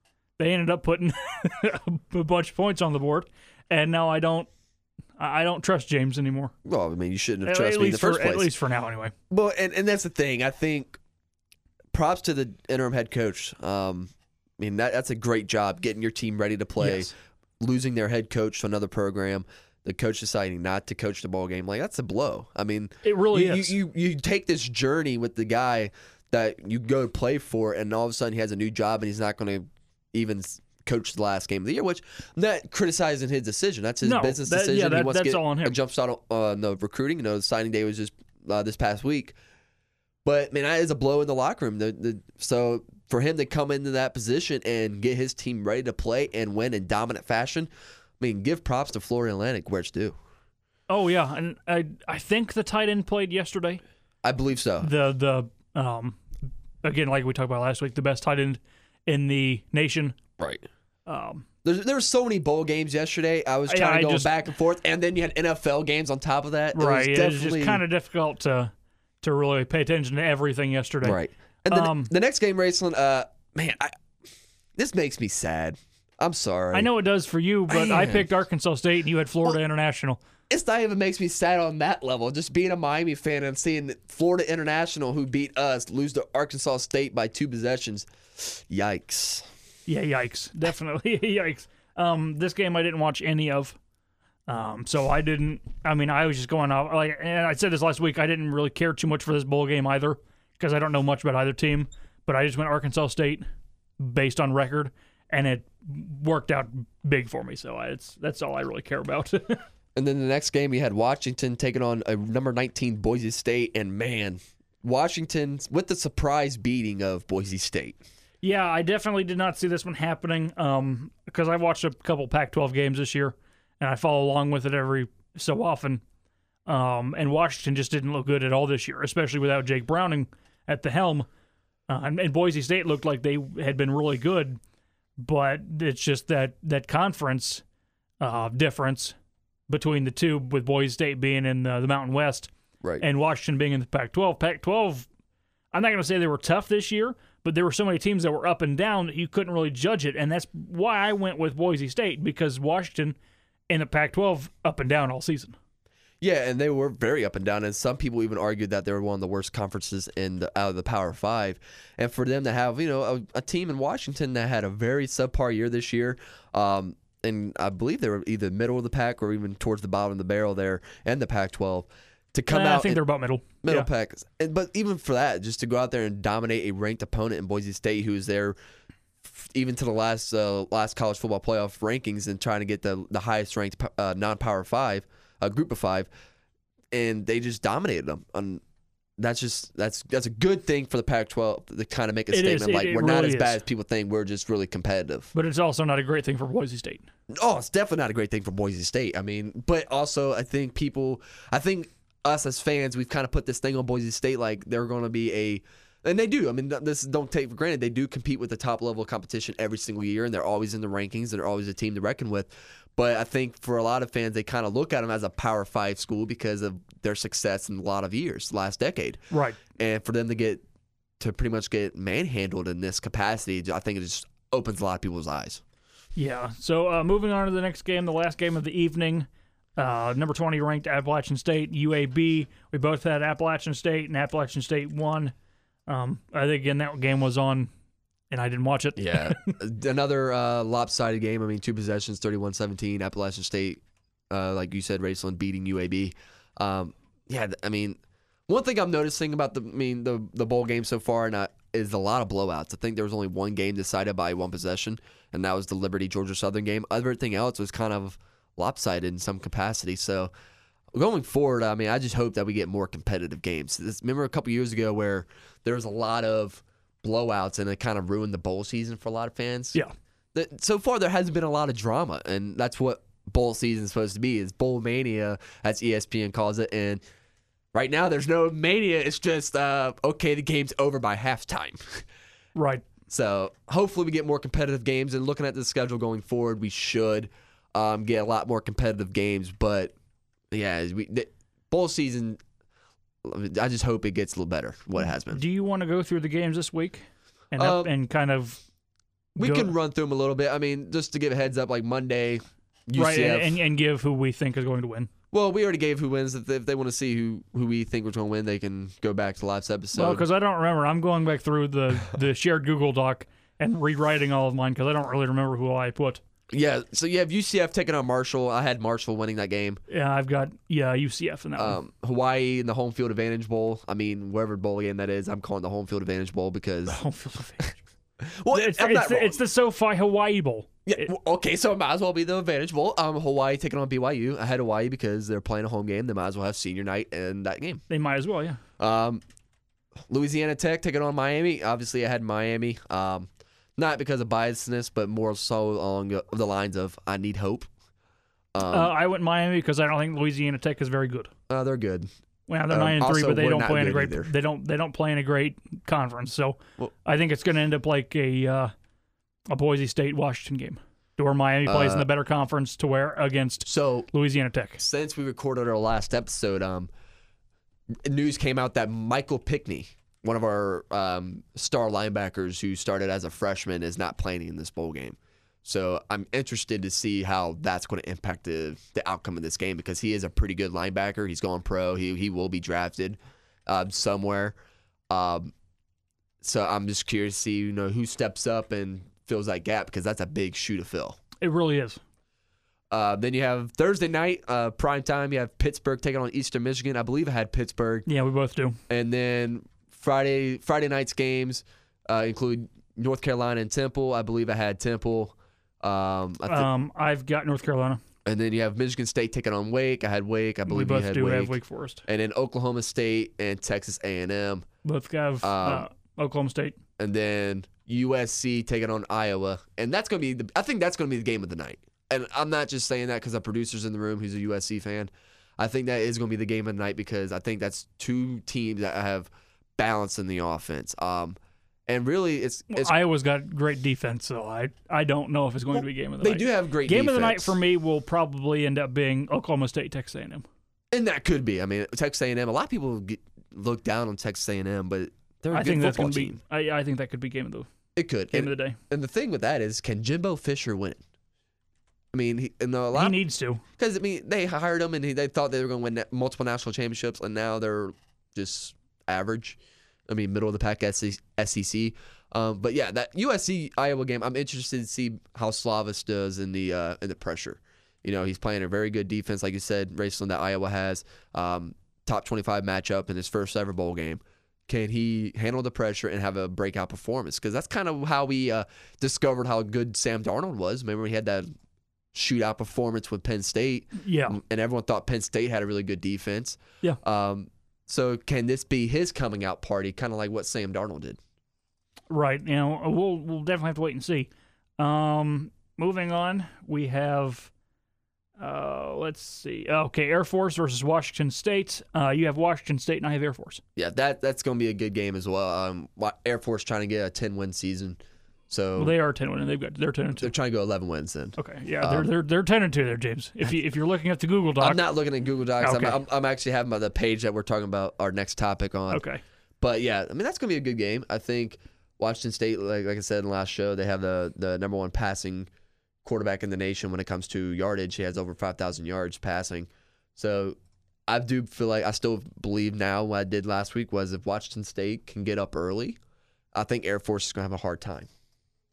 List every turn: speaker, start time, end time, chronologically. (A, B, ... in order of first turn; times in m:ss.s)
0:00.4-0:04.5 A
0:05.2-0:06.5 A
0:06.6-0:08.5 B
0:07.4-0:09.1 A
0:09.3-0:11.0 B
0:11.9-0:39.4 B
0:16.8-0:17.1 A
0:23.0-0:23.8 A
0:34.0-0:35.8 A
0:40.2-0:47.7 B
0:48.2-0:50.1 B
0:50.9-0:53.8 A
0:54.2-0:54.9 B
0:54.8-0:56.2 A
0:56.8-1:00.2 A
1:00.4-1:00.6 B
1:01.0-1:01.4 A
1:01.6-1:07.8 B
1:03.7-1:04.3 A
1:06.7-1:12.1 A
1:11.0-1:13.9 B
1:14.8-1:16.9 B
1:16.7-1:20.2 A
1:17.7-1:18.3 B
1:20.5-1:29.5 B
1:29.9-1:33.8 A
1:34.5-1:43.4 A
1:44.0-1:49.6 A
1:49.9-1:58.0 B
1:58.4-2:06.0 A
2:06.6-2:11.3 A
2:11.9-2:14.6 A
2:15.2-2:17.6 A
2:18.2-2:19.2 A
2:19.7-2:25.1 A
2:25.7-2:33.2 A
2:33.7-2:35.6 A
2:36.2-2:53.0 B
2:52.5-2:53.9 A
2:53.6-2:58.5 B
2:59.2-3:06.1 B
3:06.9-3:08.6 B
3:09.2-3:15.3 B
3:12.3-3:13.6 A
3:15.3-3:17.1 A
3:17.3-3:39.2 B
3:39.3-3:39.6 A
3:39.7-3:40.6 B
3:41.2-3:45.6 B
3:46.2-3:55.3 A
3:55.9-3:57.7 A
3:58.3-3:59.6 A
3:59.0-4:20.3 B
4:20.9-4:29.8 B
4:30.3-4:37.0 B
4:37.7-4:42.0 B
4:42.5-4:42.9 A
4:43.1-4:49.9 B
4:50.5-4:52.4 B
4:53.2-4:55.4 B
4:55.0-4:58.6 A
4:57.6-4:57.9 B
4:59.4-4:59.7 A
4:59.4-5:03.5 B
5:03.0-5:05.1 A
5:05.3-5:10.2 B
5:09.9-5:16.2 A
5:16.5-5:19.8 B
5:19.9-5:21.8 A
5:21.6-5:27.0 B
5:26.9-5:27.8 A
5:28.2-5:29.4 B
5:28.5-5:31.1 A
5:30.8-5:37.8 B
5:37.9-5:38.6 A
5:38.8-5:39.2 B
5:40.1-5:47.7 B
5:48.5-5:48.9 B
5:48.7-5:51.3 A
5:51.5-5:52.1 B
5:52.5-5:58.7 A
5:52.7-5:54.3 B
5:59.5-6:04.8 A
6:01.6-6:02.1 B
6:03.6-6:04.1 B
6:04.8-6:06.9 B
6:08.0-6:24.6 B
6:25.1-6:25.5 B
6:26.4-6:31.2 B
6:31.4-6:32.0 A
6:32.9-6:38.1 B
6:38.1-6:38.8 A
6:38.9-6:46.7 B
6:46.5-6:48.0 A
6:48.2-6:54.6 B
6:50.7-6:52.0 A
6:54.8-6:56.8 A
6:55.4-6:55.9 B
6:57.0-7:11.4 B
7:11.9-7:12.9 B
7:12.7-7:20.4 A
7:15.7-7:17.6 B
7:20.9-7:26.4 B
7:25.5-7:27.7 A
7:28.0-7:31.0 B
7:28.3-7:28.8 A
7:32.1-7:33.2 B
7:32.9-7:33.6 A
7:33.8-8:01.5 B
8:02.1-8:11.2 B
8:04.0-8:04.4 A
8:12.1-8:17.5 A
8:18.4-8:23.6 A
8:23.8-8:28.0 B
8:28.5-8:28.9 B
8:28.8-8:30.3 A
8:30.2-8:32.1 B
8:31.4-8:34.8 A
8:34.6-8:39.0 B
8:35.6-8:36.0 A
8:38.9-8:39.2 A
8:39.6-8:45.5 B
8:46.0-8:50.6 B
8:51.1-8:56.0 B
8:56.5-8:58.1 B